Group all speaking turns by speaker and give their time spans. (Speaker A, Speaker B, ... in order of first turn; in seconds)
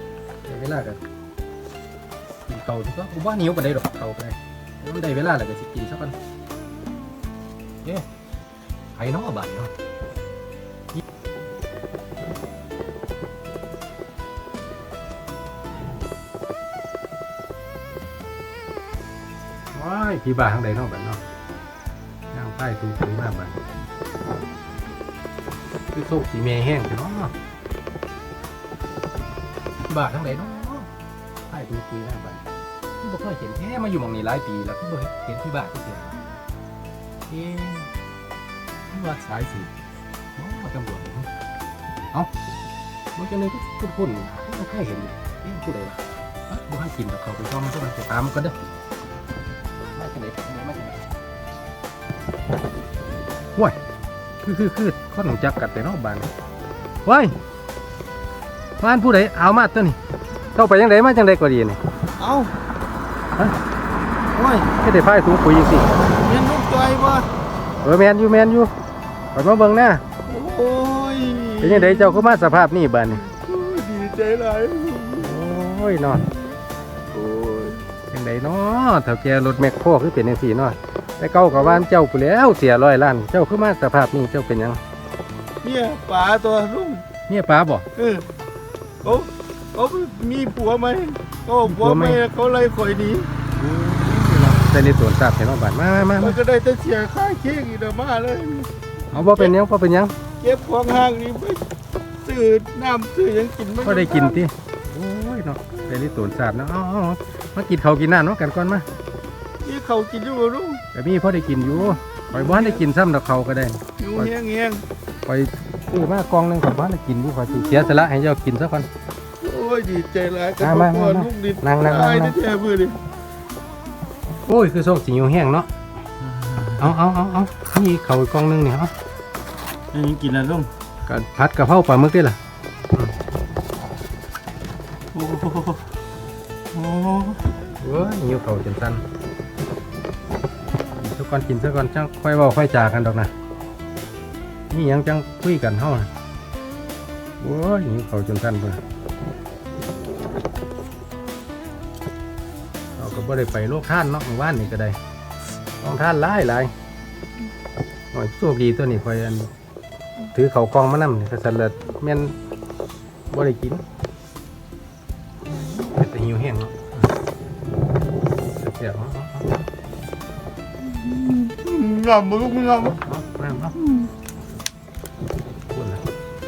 Speaker A: 0.5-1.0, 2.5-6.2, 9.0-9.7, 19.7-21.2, 22.3-23.6, 25.9-27.3, 29.9-30.9, 31.5-32.4, 33.0-36.2, 37.3-37.9, 38.9-39.7, 40.4-41.3, 43.2-48.5, 50.0-51.1, 54.4-56.3, 57.1-57.3, 58.8-60.0, 60.5-61.8, 64.8-65.9, 67.8-68.7, 69.3-70.0, 71.6-73.2, 75.2-76.2, 78.1-84.8, 87.3-87.9, 91.7-92.2, 94.6-96.4, 99.1-100.1, 103.8-108.9, 110.9-114.3, 115.3-118.9, 120.6-122.4, 124.5-125.7, 126.8-128.9, 131.1-132.4, 137.8-139.0, 141.0-143.3, 144.7-146.1, 147.4-148.8, 153.0-155.0, 155.8-156.7, 158.1-159.5, 160.3-162.3, 163.3-163.8, 165.9-166.7, 168.5-169.6, 173.0-173.8, 175.7-176.0
Speaker B: 62.2-62.5, 64.3-64.7, 66.1-67.3, 70.2-72.6, 73.2-75.4, 77.1-77.8, 81.5-81.8, 85.6-87.0, 88.0-88.2, 89.0-94.7, 96.2-99.5, 100.4-101.6, 102.2-104.4, 109.6-110.8, 112.3-112.8, 114.0-114.8, 117.5-118.0, 119.4-123.0, 126.2-126.9, 129.9-130.7, 135.1-135.8, 136.7-137.4, 170.9-173.0, 173.8-174.1